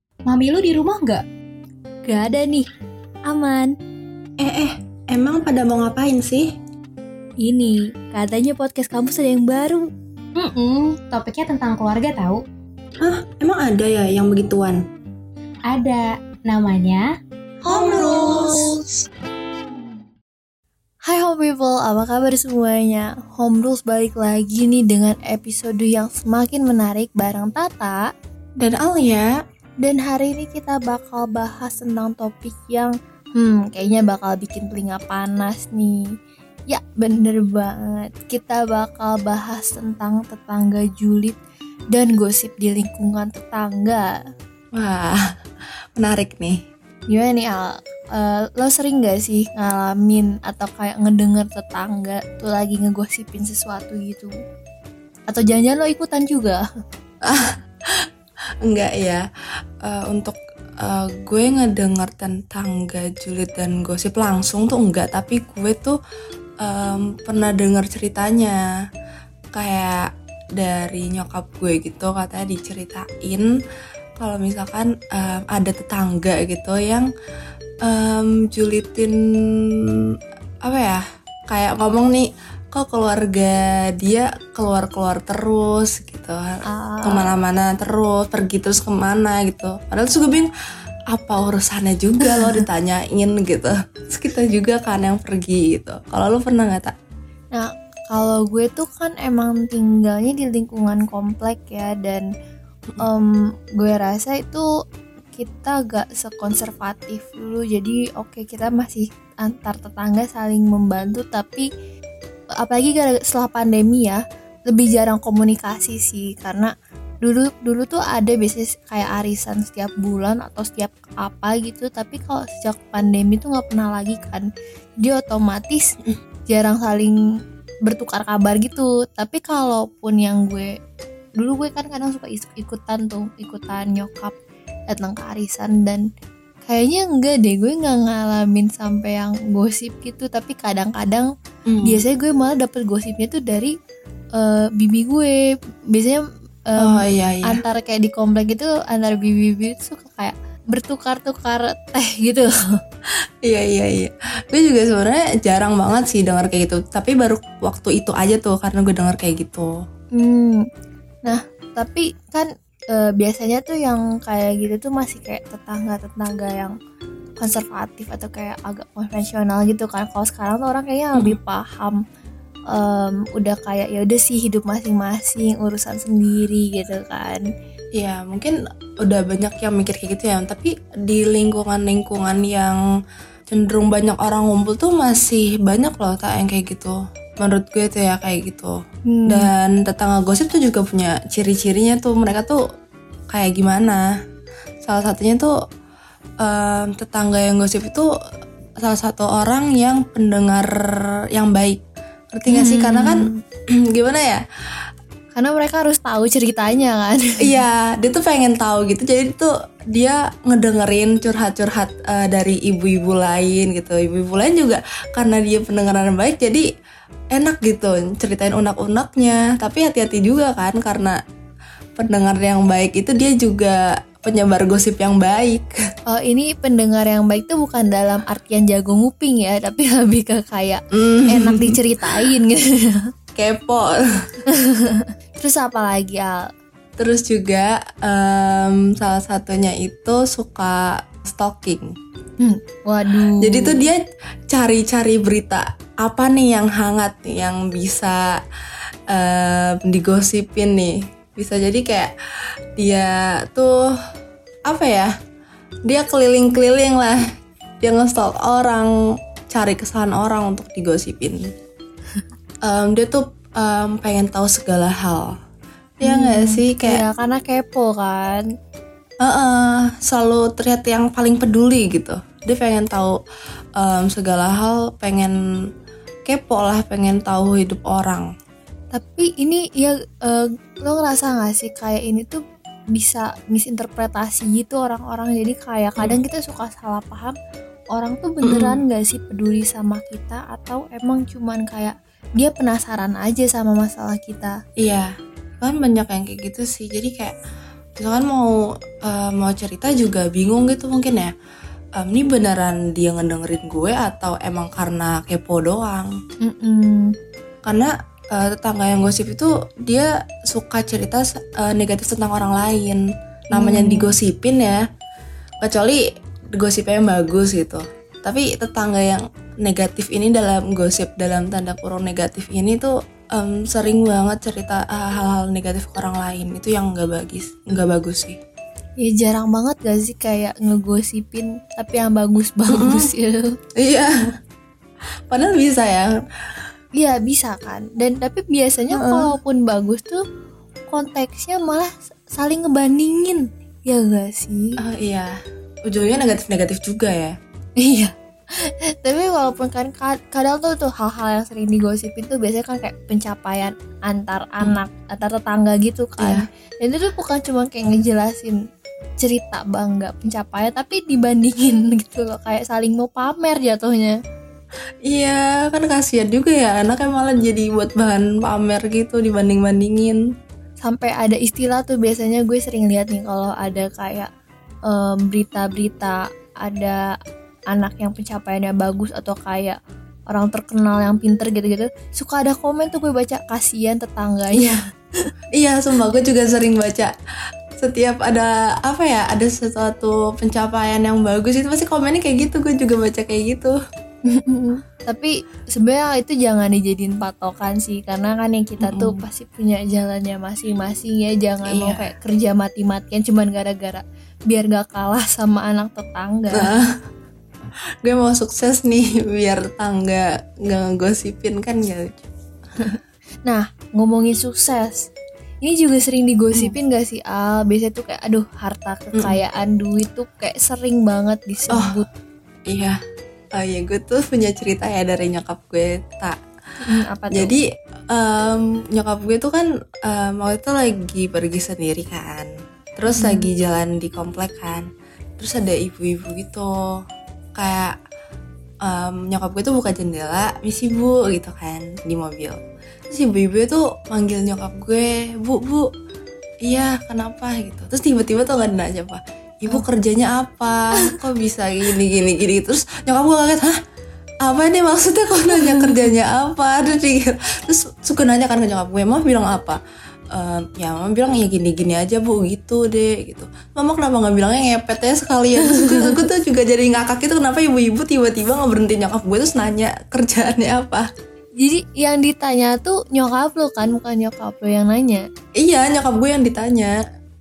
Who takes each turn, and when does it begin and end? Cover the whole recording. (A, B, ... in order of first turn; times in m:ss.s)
0:00.3-0:01.2 A
0:02.1-0:02.7 B
0:03.3-0:03.7 B
0:04.4-0:06.5 C
0:07.4-0:09.8 B
0:10.4-0:12.4 A
0:13.0-0:14.8 C
0:15.7-0:17.1 A
0:17.7-0:18.5 B
0:17.7-0:18.6 C
0:21.1-0:28.0 B
0:28.6-0:29.3 C
0:29.8-0:36.0 B
0:36.7-0:41.4 B
0:41.9-0:44.1 B
0:44.8-0:45.2 C
0:46.0-0:46.6 C
0:47.1-0:54.3 B
0:55.3-0:56.6 B
0:57.2-0:58.1 C
0:58.6-0:59.2 C
0:59.8-1:06.0 C
1:06.6-1:08.6 C
1:09.5-1:13.5 C
1:14.2-1:17.1 C
1:17.8-1:19.2 C
1:20.6-1:30.5 C
1:26.7-1:27.3 B
1:31.1-1:36.9 C
1:37.5-1:42.3 B
1:43.0-1:44.7 B
1:45.4-1:51.7 B
1:52.6-2:04.5 B
2:05.0-2:05.9 B
2:06.5-2:07.2 B
2:07.9-2:10.7 B
2:11.4-2:14.4 B
2:14.9-2:16.1 B
2:16.7-2:21.3 B
2:21.7-2:22.0 C
2:21.8-2:23.8 B
2:24.4-2:32.5 B
2:26.8-2:27.6 C
2:33.4-2:39.7 C
2:40.2-2:40.6 B
2:41.3-2:46.7 B
2:47.4-2:52.0 B
2:52.7-2:57.4 B
2:58.0-3:02.8 C
3:03.5-3:12.6 C
3:09.1-3:09.5 B
3:13.3-3:14.0 C
3:14.8-3:15.5 C
3:16.4-3:18.1 C
3:18.8-3:23.3 C
3:22.5-3:23.4 B
3:23.9-3:24.4 C
3:25.3-3:27.6 B
3:27.4-3:36.7 C
3:37.3-3:41.2 C
3:42.0-3:45.8 C
3:46.1-3:53.0 B
3:50.9-3:52.3 C
3:53.4-3:53.9 C
3:54.5-3:56.4 B
3:57.0-4:02.0 C
4:02.4-4:03.9 B
4:03.4-4:08.4 C
4:09.1-4:12.1 C
4:12.8-4:13.9 C
4:14.7-4:15.1 C
4:15.9-4:17.2 C
4:17.8-4:18.9 C
4:19.5-4:21.5 C
4:22.6-4:25.3 C
4:26.0-4:27.0 C
4:26.0-4:28.4 B
4:29.2-4:33.2 C
4:33.8-4:35.3 C
4:36.3-4:38.3 C
4:38.9-4:42.4 B
4:43.0-4:47.4 B
4:47.9-4:54.6 B
4:48.4-4:48.8 C
4:54.8-4:57.3 C
4:58.0-5:01.3 C
5:02.0-5:06.1 C
5:06.4-5:07.1 B
5:07.6-5:14.8 C
5:13.5-5:14.2 B
5:15.6-5:16.0 C
5:16.6-5:28.4 C
5:29.0-5:33.5 B
5:32.7-5:33.1 C
5:33.8-5:34.1 C
5:35.3-5:36.1 C
5:37.0-5:40.2 B
5:38.9-5:39.3 C
5:40.9-5:44.8 B
5:44.8-5:47.4 C
5:47.8-5:58.6 B
5:59.2-6:04.2 B
6:05.1-6:10.2 C
6:10.8-6:14.3 B
6:14.9-6:17.0 B
6:17.7-6:19.8 B
6:20.3-6:25.3 B
6:24.5-6:24.8 C
6:25.6-6:27.1 C
6:27.8-6:33.8 C
6:34.3-6:46.7 B
6:38.8-6:39.2 C
6:41.7-6:42.1 C
6:46.5-6:47.0 C
6:48.0-6:52.2 C
6:52.8-6:55.1 B
6:55.6-7:02.1 B
7:01.7-7:02.0 C
7:02.7-7:03.0 C
7:03.6-7:06.4 C
7:06.8-7:07.5 B
7:07.3-7:14.9 C
7:13.2-7:13.5 B
7:15.4-7:16.7 C
7:17.6-7:18.0 C
7:18.8-7:25.9 C
7:26.6-7:33.8 C
7:34.4-7:39.8 C
7:35.5-7:36.1 B
7:40.3-7:51.1 C
7:45.6-7:46.2 B
7:51.6-7:55.3 B
7:55.6-7:57.0 C